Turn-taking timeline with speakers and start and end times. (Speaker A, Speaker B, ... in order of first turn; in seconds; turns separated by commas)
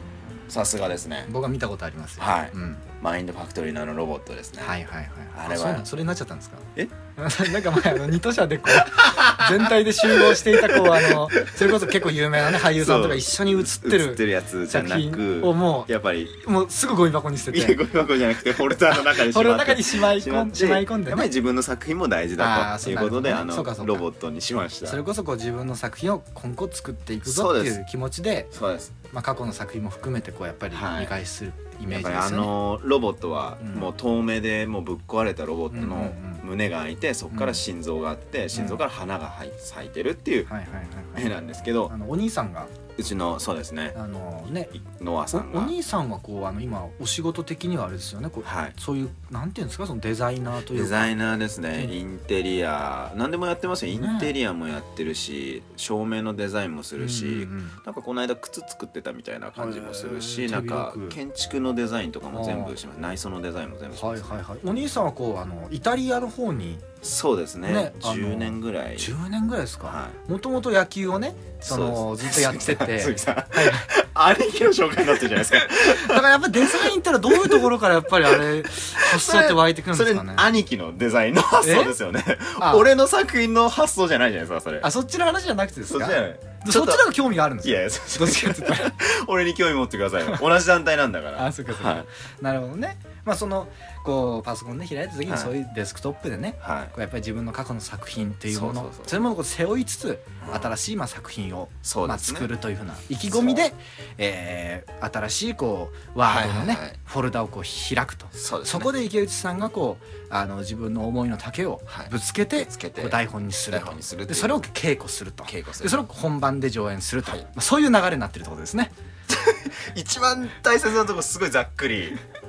Speaker A: 0.5-1.3, Speaker B: 1.3-2.8, Speaker A: 2.2-4.8, Speaker B: 4.6-17.8, Speaker A: 5.3-5.9, Speaker A: 8.7-16.4, Speaker A: 17.5-25.0, Speaker B: 18.7-21.3, Speaker B: 22.4-24.1, Speaker B: 24.9-28.5, Speaker A: 27.2-27.8, Speaker A: 28.5-28.9, Speaker B: 29.1-32.5, Speaker A: 30.7-31.1, Speaker A: 31.9-40.5, Speaker B: 33.6-33.9, Speaker B: 35.7-36.4, Speaker B: 37.3-37.6, Speaker B: 38.5-38.8, Speaker B: 40.5-41.3, Speaker A: 41.1-41.9, Speaker B: 41.9-42.7, Speaker A: 43.0-44.0, Speaker B: 43.9-44.7, Speaker A: 44.7-45.7, Speaker B: 45.3-51.1, Speaker A: 48.4-48.7, Speaker A: 50.7-64.4, Speaker B: 54.0-54.3, Speaker B: 57.0-57.8, Speaker B: 59.6-61.2, Speaker B: 62.3-62.8, Speaker B: 63.9-66.8, Speaker A: 67.0-69.1, Speaker B: 67.7-73.9, Speaker A: 69.8-70.2, Speaker A: 71.7-77.7, Speaker B: 75.3-80.5, Speaker A: 78.2-84.9, Speaker B: 81.6-82.0, Speaker B: 82.6-82.9, Speaker B: 84.8-88.9, Speaker A: 85.9-87.1, Speaker A: 87.6-92.0, Speaker B: 91.4-118.9, Speaker A: 95.2-95.5, Speaker A: 96.6-96.9, Speaker A: 98.5-99.2, Speaker A: 100.4-100.7, Speaker A: 101.8-102.5, Speaker A: 103.2-103.6, Speaker A: 106.2-107.0, Speaker A: 108.3-108.9, Speaker A: 111.9-114.6, Speaker A: 115.5-116.1, Speaker A: 119.3-122.2